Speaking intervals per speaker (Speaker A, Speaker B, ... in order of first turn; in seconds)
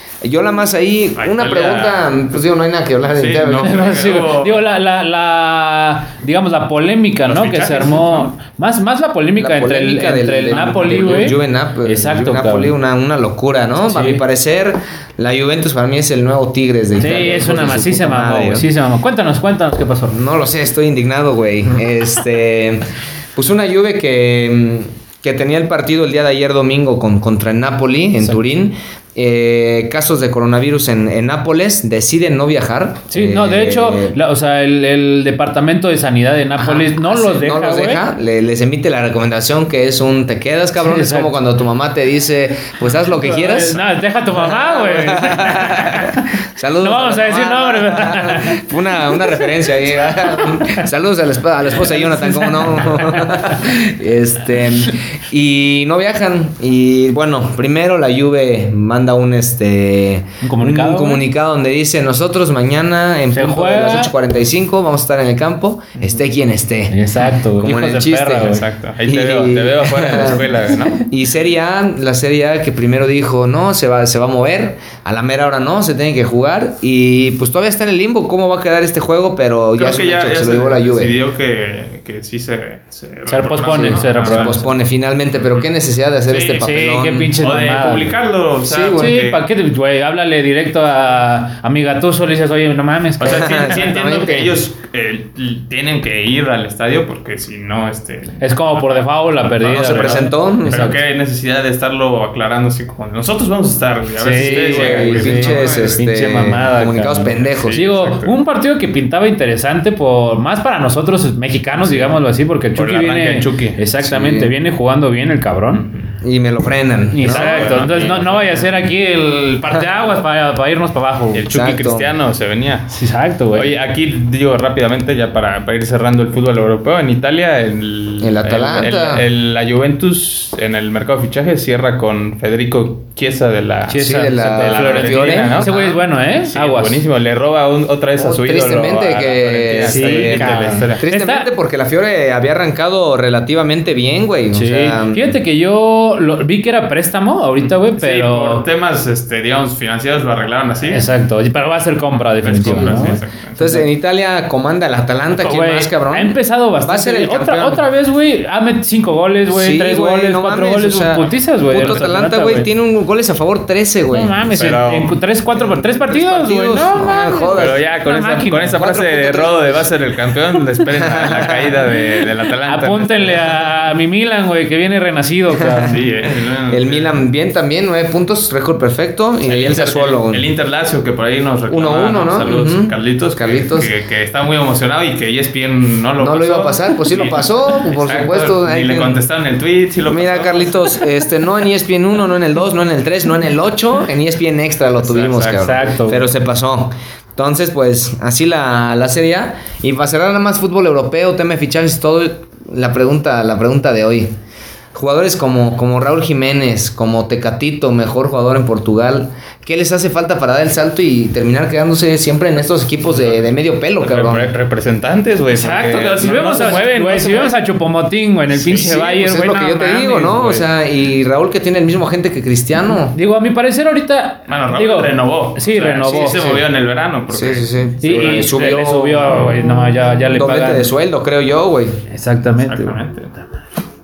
Speaker A: 0.2-3.8, 9.4-18.7, 20.1-34.2, 36.6-43.8, 44.4-67.0, 67.5-81.1, 83.8-87.3, 88.6-89.2, 93.2-94.6, 99.6-101.0, 104.4-107.8, 114.0-114.5, 116.2-118.0, 121.5-122.1, 128.2-129.2, 133.9-135.9, 138.2-145.3, 152.7-157.8, 159.5-164.3, 165.6-167.8, 168.7-169.9, 170.9-171.8, 176.7-180.5, 181.7-183.9, 186.2-189.2, 190.1-204.3, 204.9-214.5, 218.8-223.2, 227.3-229.5, 230.3-232.0
Speaker B: 1.2-2.2, 3.1-4.6, 7.2-8.3, 68.4-71.0, 79.8-84.6, 86.3-86.7, 87.4-89.4, 93.2-106.0, 107.3-108.3, 111.8-112.2, 112.8-113.8, 117.2-118.6, 121.3-122.9, 123.5-141.0, 147.9-151.1, 152.4-153.6, 164.5-165.2, 167.5-173.7, 175.8-177.2, 179.4-191.0, 195.0-195.8, 214.0-217.5, 218.5-219.0, 224.5-227.7, 232.6-233.4
Speaker C: 3.6-12.7, 13.8-14.2, 17.0-20.2, 33.1-38.0, 40.8-41.4, 43.2-48.6, 50.3-50.8, 51.8-53.6, 60.4-61.2, 63.3-64.1, 66.9-68.6, 83.3-84.7, 86.5-88.1, 88.9-93.8, 98.4-100.9, 104.2-115.9, 117.1-121.4, 122.9-123.7, 133.9-137.0, 139.8-141.5, 144.5-148.6, 150.9-153.8, 155.4-162.7, 164.1-168.7, 172.7-175.9, 195.6-196.2, 215.5-220.6, 223.1-226.6, 228.0-230.9, 232.1-233.0